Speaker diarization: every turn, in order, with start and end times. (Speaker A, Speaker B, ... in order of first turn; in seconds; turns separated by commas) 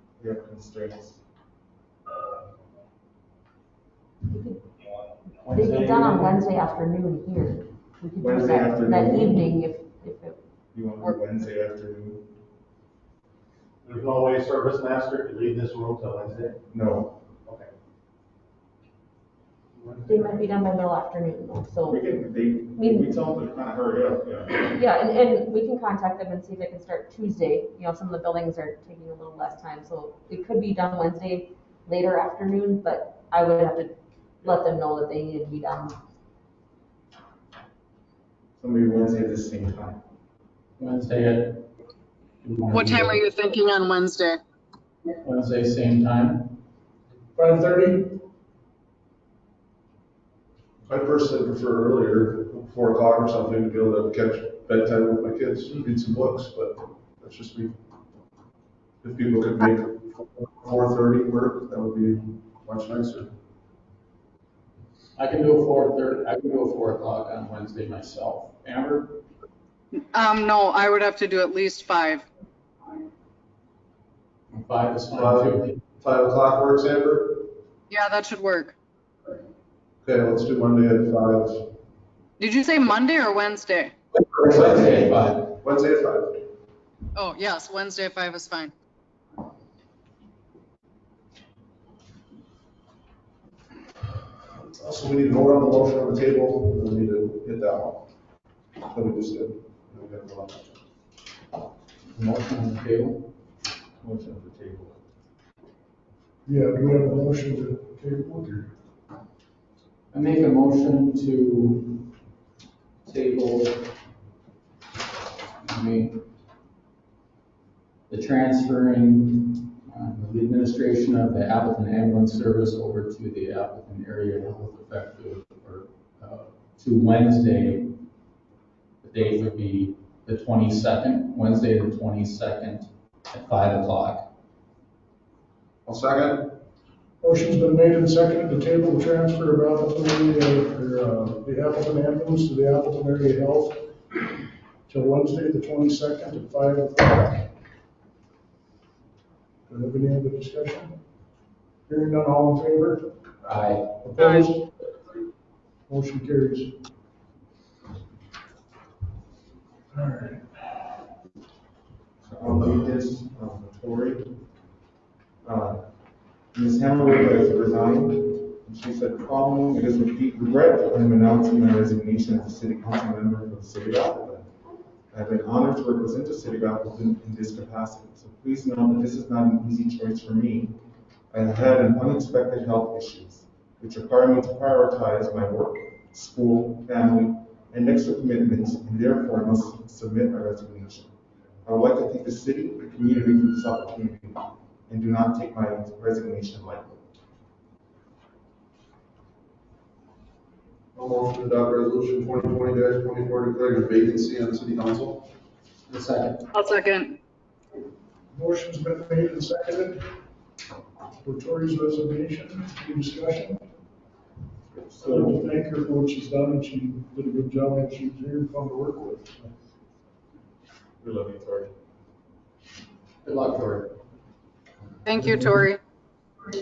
Speaker A: 0.2-1.2, Speaker B: 4.3-4.6, Speaker C: 5.5-6.4, Speaker B: 5.5-10.4, Speaker A: 8.2-9.6, Speaker A: 10.7-12.3, Speaker C: 13.8-16.6, Speaker A: 16.7-17.2, Speaker B: 20.1-22.0, Speaker C: 20.1-20.4, Speaker A: 21.9-24.8, Speaker B: 22.7-23.1, Speaker B: 24.8-36.0, Speaker A: 38.6-40.0, Speaker D: 40.8-41.7, Speaker D: 42.4-43.3, Speaker E: 42.7-44.4, Speaker D: 45.2-46.6, Speaker F: 47.4-48.1, Speaker G: 50.9-57.8, Speaker G: 59.0-63.3, Speaker D: 65.2-69.2, Speaker E: 70.1-72.2, Speaker D: 74.5-75.8, Speaker G: 75.1-77.5, Speaker E: 77.9-78.8, Speaker G: 80.0-81.7, Speaker E: 82.4-83.9, Speaker D: 84.4-85.6, Speaker G: 84.4-86.4, Speaker E: 87.2-88.7, Speaker G: 94.6-98.0, Speaker G: 98.9-100.8, Speaker D: 102.2-103.3, Speaker A: 104.0-105.0, Speaker F: 106.5-108.7, Speaker D: 110.1-112.1, Speaker D: 113.0-113.9, Speaker D: 115.6-116.2, Speaker D: 118.1-127.9, Speaker D: 129.0-134.2, Speaker G: 135.9-136.5, Speaker F: 137.2-144.3, Speaker F: 144.9-147.5, Speaker F: 149.7-150.9, Speaker F: 151.9-153.1, Speaker D: 153.4-153.9, Speaker F: 154.0-154.7, Speaker E: 154.2-154.5, Speaker F: 155.9-156.7, Speaker F: 159.9-160.8, Speaker A: 162.2-164.3, Speaker A: 165.4-165.8, Speaker A: 166.5-174.5, Speaker A: 175.1-180.8, Speaker A: 181.3-191.1, Speaker A: 191.7-197.0, Speaker G: 200.9-205.3, Speaker D: 205.9-206.5, Speaker E: 206.5-207.2, Speaker F: 208.3-210.1, Speaker F: 211.2-213.6, Speaker A: 214.7-215.5, Speaker F: 215.0-219.5, Speaker A: 221.0-221.7, Speaker D: 223.2-223.9, Speaker E: 225.1-225.8